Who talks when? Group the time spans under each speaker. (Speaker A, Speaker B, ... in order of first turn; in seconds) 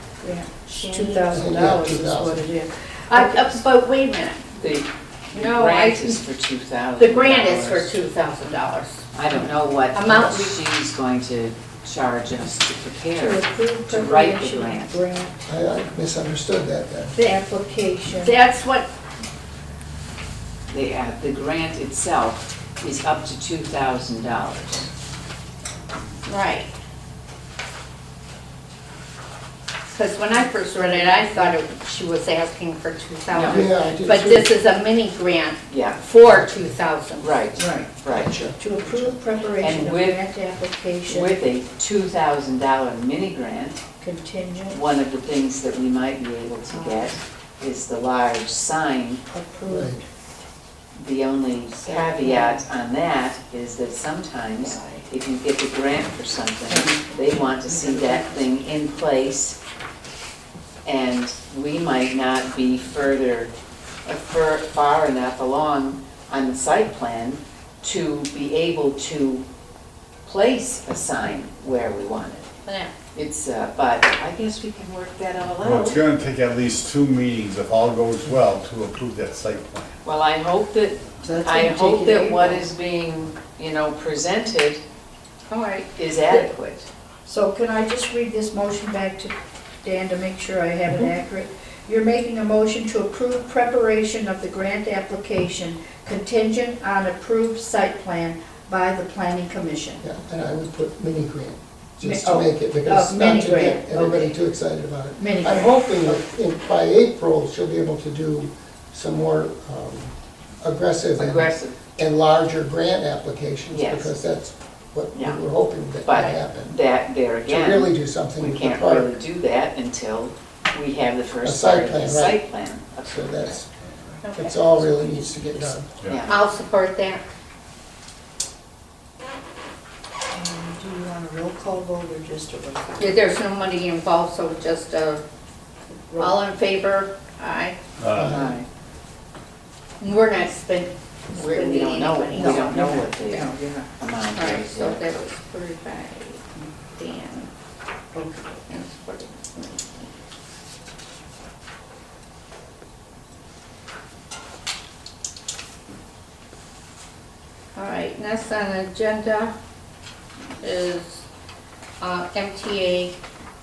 Speaker A: 0.2-3.6, 13.1-15.5, 17.1-18.3, 30.5-31.5, 37.5-37.9, 38.6-41.3, 44.0-44.8, 46.7-47.1, 49.3-50.0, 51.8-52.6, 54.6-55.0, 56.7-57.0, 57.7-58.4, 81.2-82.7, 87.2-100.0, 102.0-104.3, 105.2-106.2, 124.7-125.6, 130.3-133.3, 136.1-136.4, 142.3-143.9, 148.1-148.6
Speaker B: 0.6-1.3, 3.1-4.6, 5.3-6.2, 7.0-9.1, 9.9-10.6, 18.1-18.9, 26.2-26.7, 29.9-37.4, 72.6-72.9, 85.5-86.5, 124.2-124.6, 126.3-127.2, 133.0-135.2, 136.2-137.8, 140.0-142.8, 144.3-147.5, 148.7-150.1, 157.7-159.5, 160.6-161.2, 162.0-163.2
Speaker C: 1.3-2.4, 15.4-17.2, 33.4-34.5, 38.1-39.2, 49.7-50.0, 100.0-116.8, 117.5-119.1, 121.4-122.4, 123.0-123.7, 124.3-125.9, 138.2-138.6
Speaker D: 4.6-8.0, 9.1-15.0, 20.7-24.9, 33.3-33.6, 35.7-36.0, 37.2-38.4, 39.6-40.2, 41.1-43.8, 44.7-49.2, 50.9-59.6, 60.8-63.5, 64.0-69.4, 70.2-72.5, 73.1-76.0, 80.0-84.8, 86.0-86.9, 111.2-111.8, 113.7-114.1, 115.1-115.4, 116.0-123.6, 126.0-126.3, 138.2-138.7, 141.3-145.0
Speaker E: 75.6-80.0, 126.0-126.3, 138.0-138.4